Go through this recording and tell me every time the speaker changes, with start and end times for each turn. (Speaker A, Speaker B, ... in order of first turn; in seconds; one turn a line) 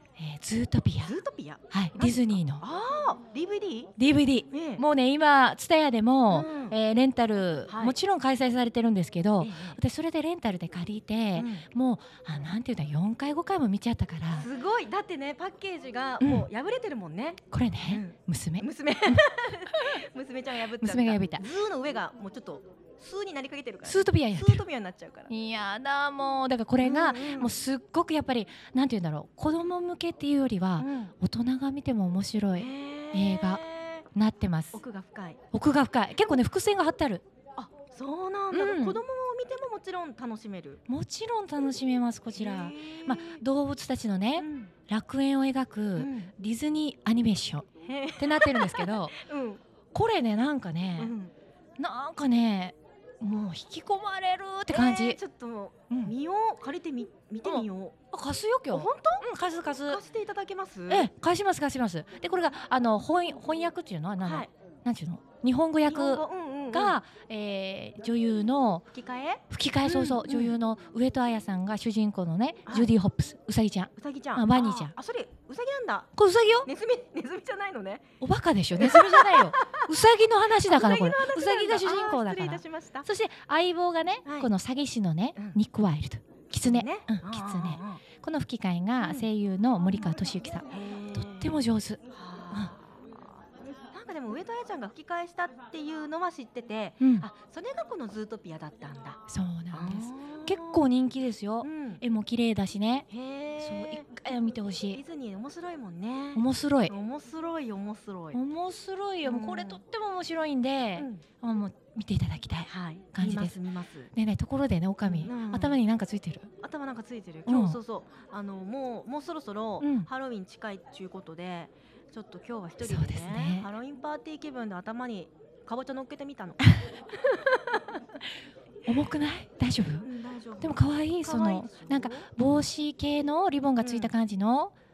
Speaker A: 0.1-1.1
Speaker B: 1.0-3.9
Speaker A: 1.7-2.6
Speaker A: 4.0-14.5
Speaker B: 4.5-4.8
Speaker B: 6.3-6.8
Speaker B: 7.7-8.0
Speaker B: 9.4-9.8
Speaker B: 11.3-11.7
Speaker B: 14.3-25.3
Speaker A: 16.2-16.5
Speaker A: 17.5-19.2
Speaker A: 20.8-21.4
Speaker A: 23.8-24.6
Speaker A: 25.3-34.8
Speaker B: 26.8-27.6
Speaker B: 30.8-31.1
Speaker B: 32.5-34.0
Speaker B: 34.7-35.4
Speaker A: 35.5-37.2
Speaker B: 37.6-40.8
Speaker A: 38.5-39.0
Speaker A: 40.9-47.7
Speaker B: 42.3-43.4
Speaker B: 44.4-44.7
Speaker B: 46.0-46.3
Speaker B: 47.8-49.6
Speaker A: 48.2-49.2
Speaker A: 49.9-51.1
Speaker B: 51.0-51.3
Speaker A: 51.8-55.2
Speaker B: 54.7-58.0
Speaker A: 55.9-56.1
Speaker A: 57.4-60.0
Speaker B: 58.7-59.3
Speaker B: 59.8-61.1
Speaker A: 60.9-68.9
Speaker B: 64.2-64.5
Speaker B: 65.8-67.0
Speaker B: 68.9-70.5
Speaker A: 69.5-74.9
Speaker B: 72.7-72.9
Speaker B: 74.0-76.1
Speaker A: 76.1-76.7
Speaker B: 76.6-78.0
Speaker A: 78.2-92.7
Speaker B: 78.8-79.8
Speaker B: 80.7-83.1
Speaker B: 84.2-84.5
Speaker B: 85.3-85.6
Speaker B: 86.6-88.0
Speaker B: 89.0-89.3
Speaker B: 89.9-91.6
Speaker B: 92.1-93.4
Speaker B: 93.9-100.8
Speaker A: 97.0-97.3
Speaker A: 99.3-103.1
Speaker B: 101.6-102.0
Speaker B: 103.1-104.2
Speaker A: 103.6-105.0
Speaker B: 104.9-108.4
Speaker A: 106.3-106.9
Speaker A: 108.3-113.6
Speaker B: 109.2-109.8
Speaker B: 111.0-111.2
Speaker B: 112.7-114.1
Speaker A: 114.1-116.5
Speaker B: 115.1-115.8
Speaker B: 116.6-126.6
Speaker A: 117.5-117.8
Speaker A: 119.8-120.1
Speaker A: 122.8-123.7
Speaker B: 127.1-127.8
Speaker A: 128.8-134.7
Speaker B: 130.0-132.3
Speaker B: 133.8-134.1